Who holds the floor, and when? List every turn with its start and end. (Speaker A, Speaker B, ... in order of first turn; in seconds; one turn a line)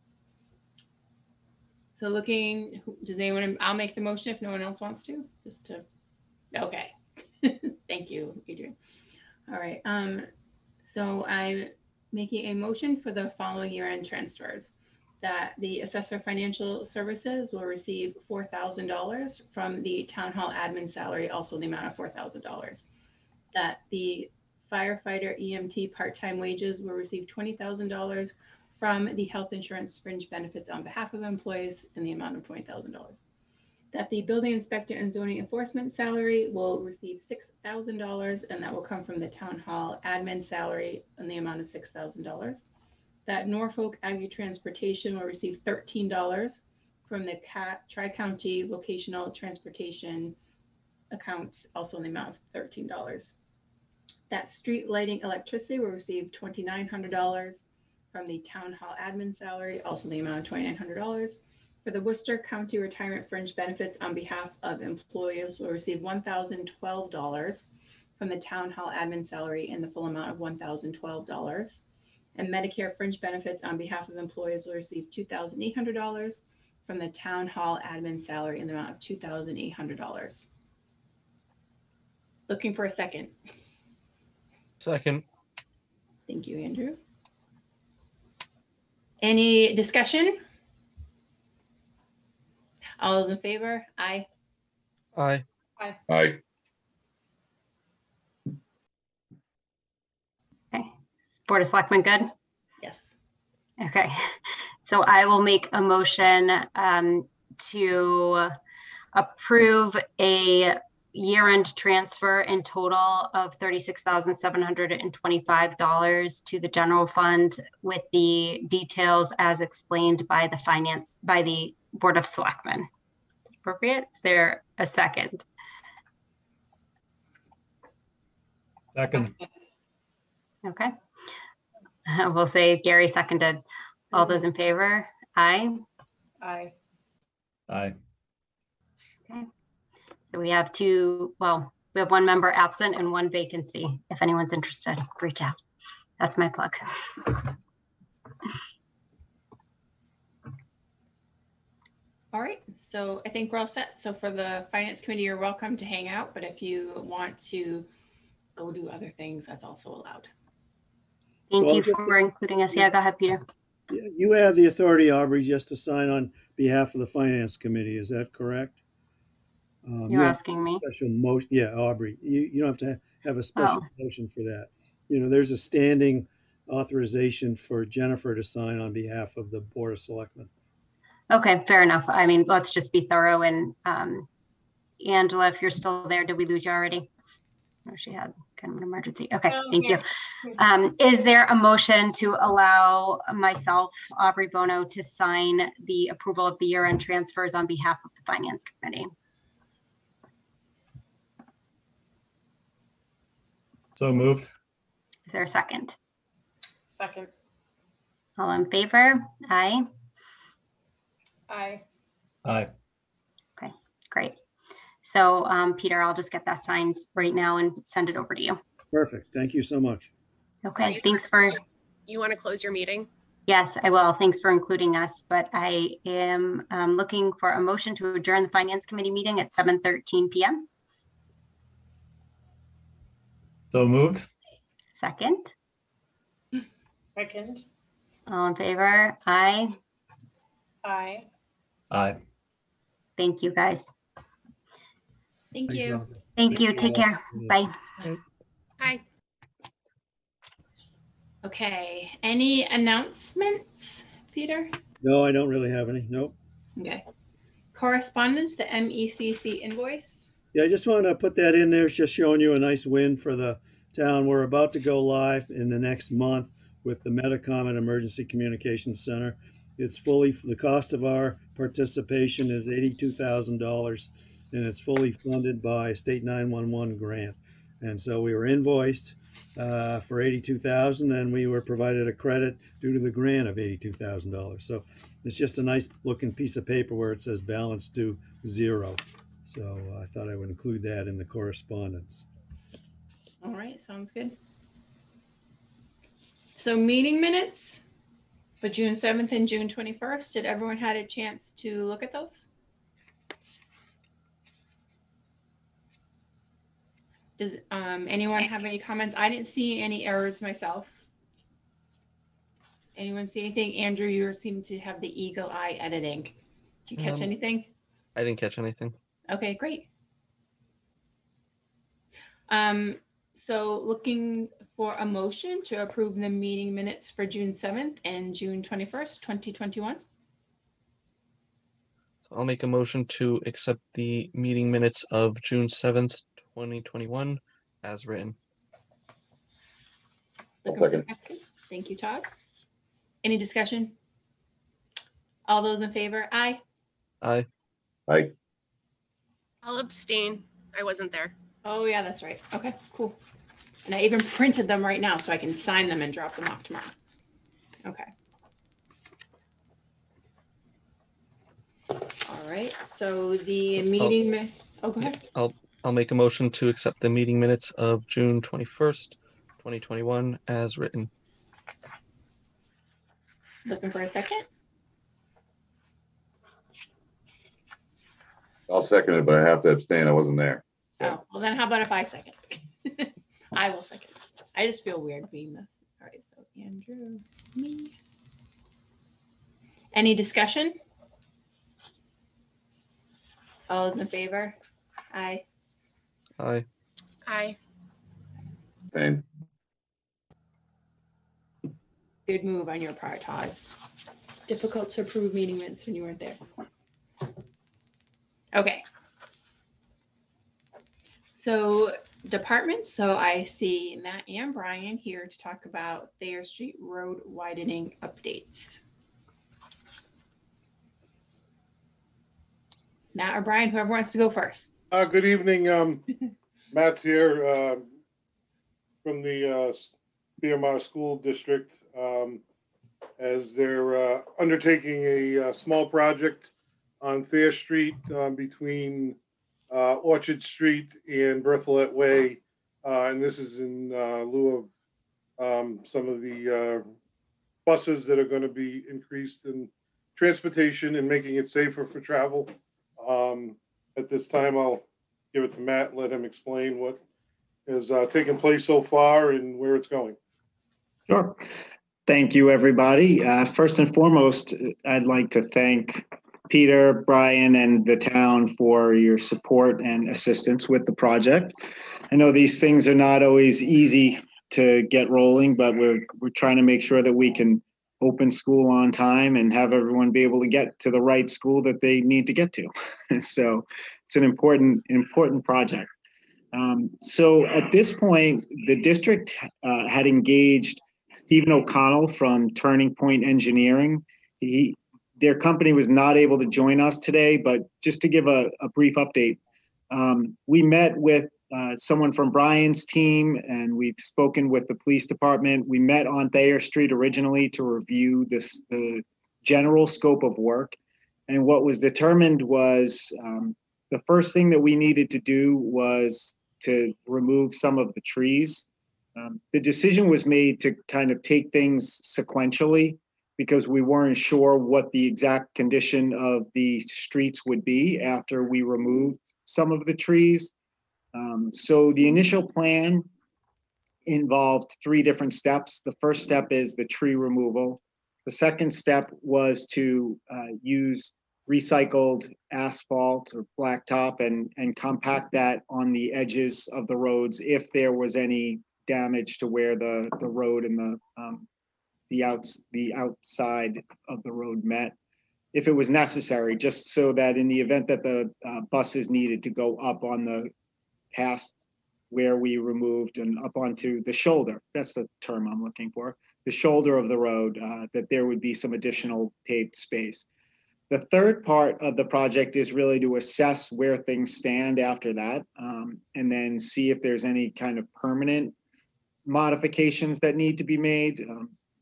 Speaker A: 2.0-5.8
Speaker A: 6.5-8.7
Speaker A: 9.5-10.3
Speaker A: 10.8-22.8
Speaker A: 23.5-33.2
Speaker A: 33.9-42.6
Speaker A: 43.3-50.3
Speaker A: 51.1-53.3
Speaker A: 54.3-67.7
Speaker A: 68.2-71.8
Speaker A: 72.3-80.5
Speaker A: 82.5-83.3
Speaker B: 84.8-85.2
Speaker A: 86.3-87.0
Speaker A: 89.2-90.4
Speaker A: 93.0-94.3
Speaker B: 95.1-95.4
Speaker C: 96.1-96.4
Speaker D: 101.4-102.3
Speaker D: 103.8-108.5
Speaker D: 109.1-122.9
Speaker D: 123.6-125.4
Speaker E: 128.9-129.3
Speaker D: 130.6-130.9
Speaker D: 132.1-135.8
Speaker A: 136.4-136.7
Speaker E: 137.7-138.0
Speaker D: 140.3-145.6
Speaker D: 146.2-147.4
Speaker A: 152.3-157.9
Speaker A: 158.6-160.3
Speaker D: 161.5-163.4
Speaker F: 161.6-162.3
Speaker F: 163.9-168.8
Speaker F: 169.8-180.5
Speaker D: 170.1-170.8
Speaker D: 173.6-173.8
Speaker D: 181.3-184.3
Speaker D: 185.0-187.1
Speaker D: 187.9-190.0
Speaker D: 190.6-199.1
Speaker E: 204.0-204.5
Speaker D: 205.3-205.9
Speaker D: 208.4-209.8
Speaker E: 212.4-212.7
Speaker D: 213.6-214.3
Speaker D: 215.0-218.6
Speaker F: 218.9-220.1
Speaker D: 220.6-221.6
Speaker G: 220.9-221.6
Speaker G: 222.1-223.1
Speaker D: 223.5-230.7
Speaker E: 233.7-234.3
Speaker D: 235.0-235.5
Speaker D: 238.3-239.7
Speaker E: 241.9-242.2
Speaker D: 243.2-243.9
Speaker A: 245.5-246.0
Speaker F: 245.7-247.6
Speaker D: 246.4-247.7
Speaker A: 251.4-254.7
Speaker F: 255.0-256.3
Speaker A: 256.8-257.0
Speaker A: 257.7-260.3
Speaker F: 260.5-292.2
Speaker A: 293.4-294.3
Speaker A: 296.5-297.8
Speaker A: 298.6-302.4
Speaker A: 307.4-311.0
Speaker A: 312.9-316.3
Speaker A: 316.9-317.7
Speaker B: 317.0-317.3
Speaker B: 318.1-318.9
Speaker A: 319.3-319.9
Speaker A: 322.5-330.0
Speaker B: 332.2-338.4
Speaker A: 340.6-342.3
Speaker C: 340.7-341.0
Speaker A: 343.2-343.9
Speaker A: 345.5-346.6
Speaker B: 347.2-347.5
Speaker C: 348.1-348.3
Speaker G: 349.6-351.3
Speaker A: 351.6-353.2
Speaker A: 353.8-356.9
Speaker A: 357.8-358.1
Speaker A: 362.2-365.2
Speaker B: 365.0-371.1
Speaker A: 373.6-374.4
Speaker C: 378.7-381.1
Speaker A: 381.0-387.9
Speaker A: 389.9-390.8
Speaker A: 393.7-394.5
Speaker A: 395.1-395.4
Speaker B: 396.4-396.6
Speaker G: 397.3-397.6
Speaker C: 398.9-399.2
Speaker A: 402.3-403.7
Speaker A: 404.5-406.4
Speaker A: 408.5-408.8
Speaker A: 411.3-418.8
Speaker A: 423.1-424.8
Speaker H: 424.9-426.0
Speaker H: 426.7-427.9
Speaker H: 429.0-432.4
Speaker H: 433.2-439.2
Speaker H: 439.7-444.7
Speaker H: 445.4-446.9
Speaker H: 447.6-457.0
Speaker H: 457.7-460.2
Speaker I: 461.1-471.6
Speaker I: 472.1-485.9
Speaker I: 486.5-499.4
Speaker I: 499.9-510.8
Speaker I: 511.3-530.5
Speaker I: 531.1-533.1
Speaker I: 534.0-551.5
Speaker I: 552.1-554.9
Speaker I: 555.5-560.5
Speaker I: 561.1-561.6
Speaker I: 562.1-570.3
Speaker I: 570.9-578.5
Speaker I: 579.2-581.5